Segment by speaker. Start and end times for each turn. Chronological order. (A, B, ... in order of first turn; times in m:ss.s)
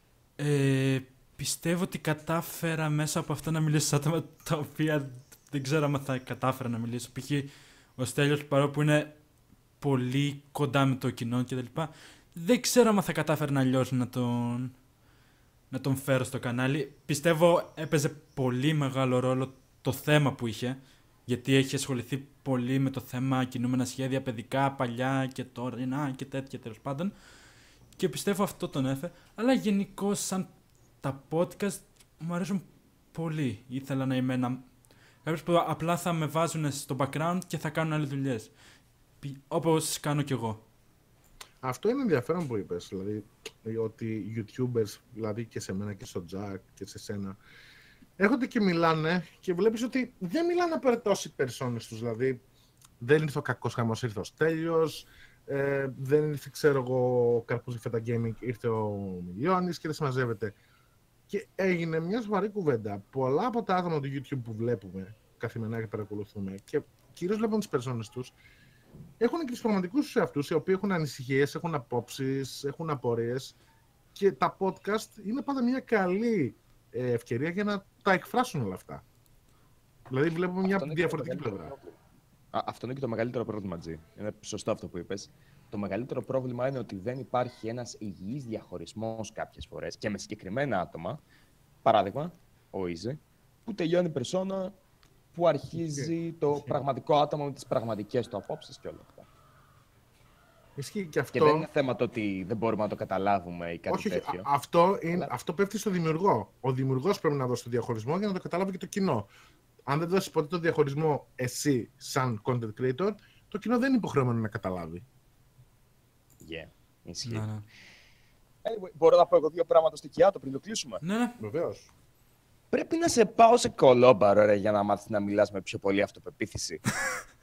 0:00.4-0:09.2 A
0:09.8-0:14.7 A
0:15.7-0:27.1 A
0:28.0-0:34.7 A
0:35.2-0:38.5 A
0:39.2-0:40.6 A
0:41.6-0:47.4 B
0:48.2-0:52.4 B
0:53.0-1:00.6 B
1:01.3-1:08.3 B
1:09.2-1:13.6 B
1:14.1-1:19.0 B
1:20.1-1:21.7 B
1:20.6-1:22.0 C
1:22.5-1:31.2 C
1:31.8-1:34.8 C
1:35.3-1:39.3 C
1:35.8-1:36.8 B
1:40.8-1:41.7 B
1:41.3-1:44.5 C
1:43.9-1:49.3 B
1:49.9-1:55.0 B
1:56.4-1:57.5 C
1:57.2-1:57.6 A
1:58.6-2:01.0 C
2:01.0-2:01.4 A
2:01.4-2:01.9 B
2:02.7-2:06.8 C